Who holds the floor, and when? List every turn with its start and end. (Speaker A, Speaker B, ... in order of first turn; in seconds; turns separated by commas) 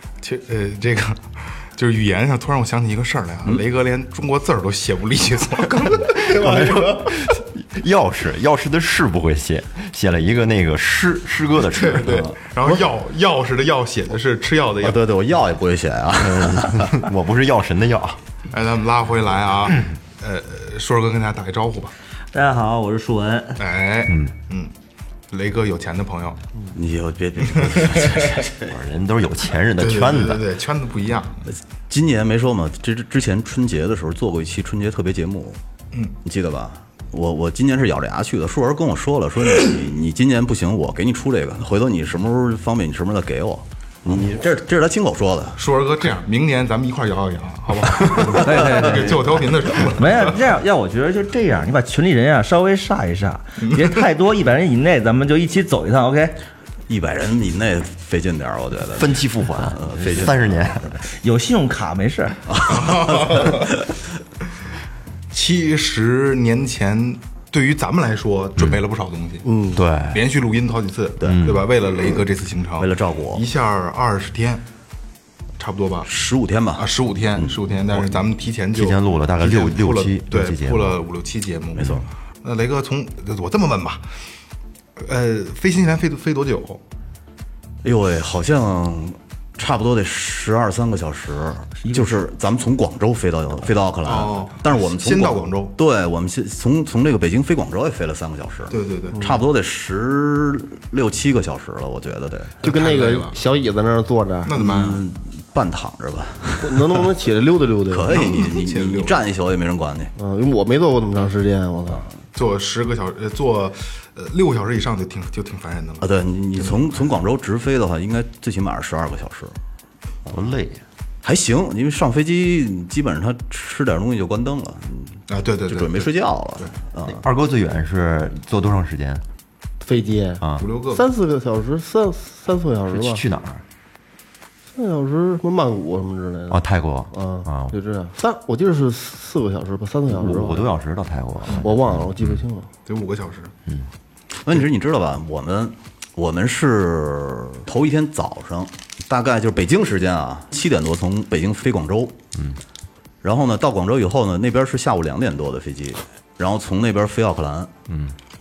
Speaker A: 0.2-7.4, Speaker B: 6.2-12.2, Speaker A: 11.6-15.0, Speaker C: 12.1-12.8, Speaker C: 14.8-17.1, Speaker B: 16.2-18.2, Speaker A: 18.5-21.9, Speaker D: 22.3-23.6, Speaker A: 23.6-24.7, Speaker A: 25.3-26.4, Speaker C: 26.7-28.7, Speaker A: 27.5-28.4, Speaker B: 28.7-30.5, Speaker A: 29.8-31.5, Speaker C: 31.9-35.6, Speaker C: 36.2-45.6, Speaker A: 45.6-50.4, Speaker D: 48.3-49.2, Speaker D: 50.0-56.4, Speaker A: 53.6-54.0, Speaker C: 56.9-60.4, Speaker B: 59.0-61.0, Speaker D: 60.0-60.3, Speaker D: 61.0-62.4, Speaker C: 62.5-63.5, Speaker A: 62.7-63.8, Speaker A: 65.3-69.5, Speaker E: 69.4-69.8, Speaker B: 69.7-70.2, Speaker A: 70.1-74.6, Speaker B: 71.3-71.7, Speaker C: 72.8-73.5, Speaker A: 75.6-76.1, Speaker C: 76.0-78.2, Speaker A: 76.8-84.0, Speaker B: 78.7-81.0, Speaker C: 81.8-82.0, Speaker A: 85.0-86.8, Speaker C: 87.8-102.5, Speaker D: 91.8-92.2, Speaker A: 94.0-95.8, Speaker A: 98.7-99.2, Speaker E: 99.1-99.4, Speaker A: 102.6-103.4, Speaker E: 102.6-104.5, Speaker A: 104.5-105.0, Speaker C: 104.5-107.1, Speaker E: 106.6-108.3, Speaker C: 107.9-110.1, Speaker A: 108.1-109.2, Speaker E: 110.2-112.1, Speaker A: 112.3-117.0, Speaker C: 116.0-119.5, Speaker B: 120.3-120.8, Speaker C: 121.2-127.2, Speaker A: 125.3-126.7, Speaker B: 127.1-129.2, Speaker E: 129.8-133.2, Speaker B: 130.4-130.7, Speaker A: 130.6-131.0, Speaker B: 132.9-133.6, Speaker E: 134.7-140.7, Speaker B: 136.5-137.8, Speaker B: 140.2-142.4, Speaker E: 141.5-142.7, Speaker A: 142.9-143.5, Speaker C: 144.4-152.2, Speaker C: 153.2-157.7, Speaker B: 157.9-158.2